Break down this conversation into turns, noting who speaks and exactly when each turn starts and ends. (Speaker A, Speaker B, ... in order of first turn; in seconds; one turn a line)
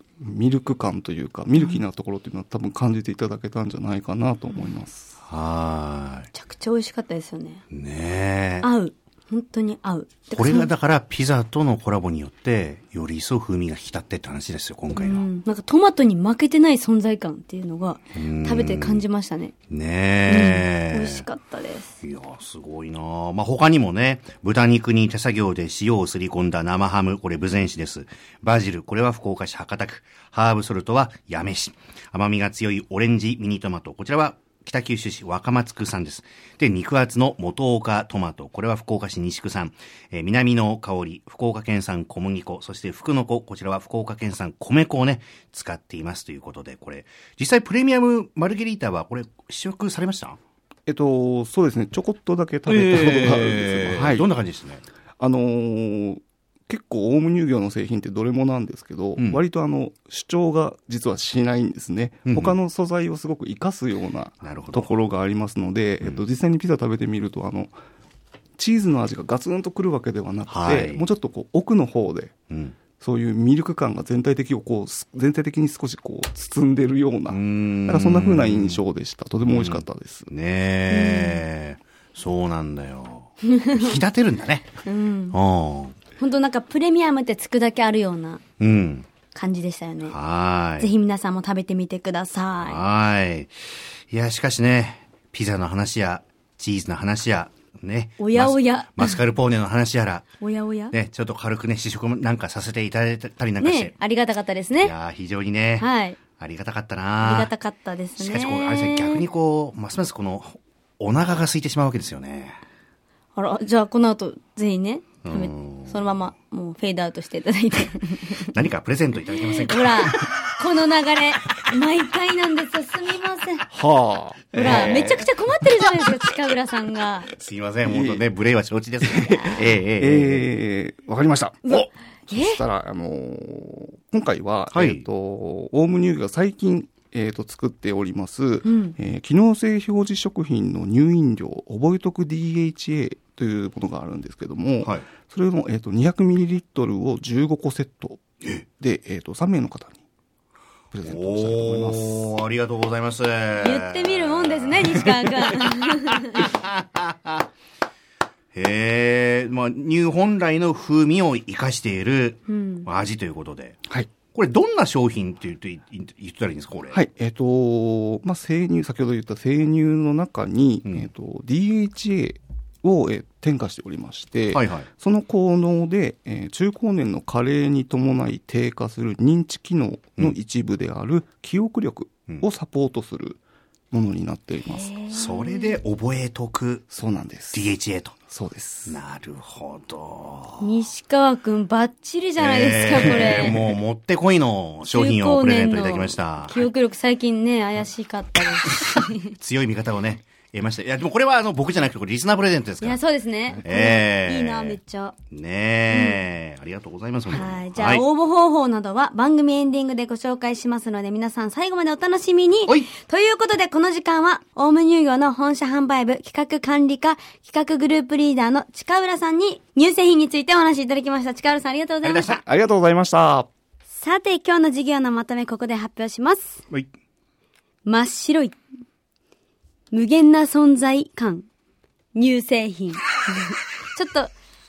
Speaker A: 0.2-5.2
Speaker B: 5.2-6.3
Speaker C: 6.3-7.6
Speaker B: 7.7-8.7
Speaker C: 8.6-10.7
Speaker B: 10.3-15.3
Speaker C: 14.9-19.5
Speaker B: 18.1-19.0
Speaker B: 19.7-21.2
Speaker C: 20.2-21.9
Speaker B: 22.0-50.4
Speaker A: 50.9-54.3
Speaker B: 52.6-54.8
Speaker A: 55.2-67.7
Speaker B: 59.2-59.4
Speaker B: 62.3-62.5
Speaker B: 64.4-64.9
Speaker A: 68.6-72.3
Speaker B: 70.5-71.0
Speaker B: 72.5-72.8
Speaker A: 73.0-80.3
Speaker B: 77.3-78.8
Speaker B: 79.4-84.7
Speaker C: 80.9-81.4
Speaker C: 83.4-84.0
Speaker C: 84.8-85.4
Speaker B: 85.3-86.0
Speaker C: 86.2-88.4
Speaker B: 88.6-89.1
Speaker C: 89.3-90.1
Speaker B: 90.1-90.9
Speaker C: 90.8-92.8
Speaker B: 92.6-100.3
Speaker C: 98.2-99.2
Speaker C: 100.4-100.9
Speaker B: 100.9-103.9
Speaker C: 103.6-104.9
Speaker B: 104.8-105.9
Speaker C: 105.8-106.2
Speaker B: 106.4-107.5
Speaker C: 107.2-109.3
Speaker B: 108.2-112.6
Speaker C: 113.3-118.5
Speaker B: 115.2-116.0
Speaker B: 118.5-120.3
Speaker C: 119.3-123.7
Speaker A: 123.7-125.3
Speaker C: 124.5-127.3
Speaker B: 124.6-125.2
Speaker B: 127.3-130.5
Speaker A: 127.8-128.2
Speaker A: 129.0-148.2
Speaker C: 129.2-129.7
Speaker C: 131.6-132.6
Speaker B: 134.7-135.0
Speaker C: 138.6-138.9
Speaker A: 148.8-150.0
Speaker A: 150.9-152.3
Speaker B: 151.0-157.4
Speaker C: 153.6-156.4
Speaker B: 158.5-163.8
Speaker C: 162.5-162.9
Speaker B: 164.3-167.0
Speaker A: 166.9-183.4
Speaker B: 174.5-174.9
Speaker A: 183.9-184.9
Speaker C: 184.6-185.8
Speaker B: 185.1-186.8
Speaker A: 186.9-187.7
Speaker B: 187.5-188.2
Speaker A: 188.3-189.0
Speaker B: 188.9-190.7
Speaker C: 190.6-193.8
Speaker B: 192.4-196.7
Speaker C: 194.8-199.3
Speaker B: 198.8-203.0
Speaker C: 202.8-205.1
Speaker B: 203.6-204.8
Speaker B: 205.3-208.0
Speaker C: 205.9-206.2
Speaker C: 207.3-222.4
Speaker B: 222.0-222.4
Speaker A: 222.4-223.5
Speaker C: 223.9-226.6
Speaker C: 227.8-228.6
Speaker C: 229.9-231.5
Speaker C: 232.1-234.3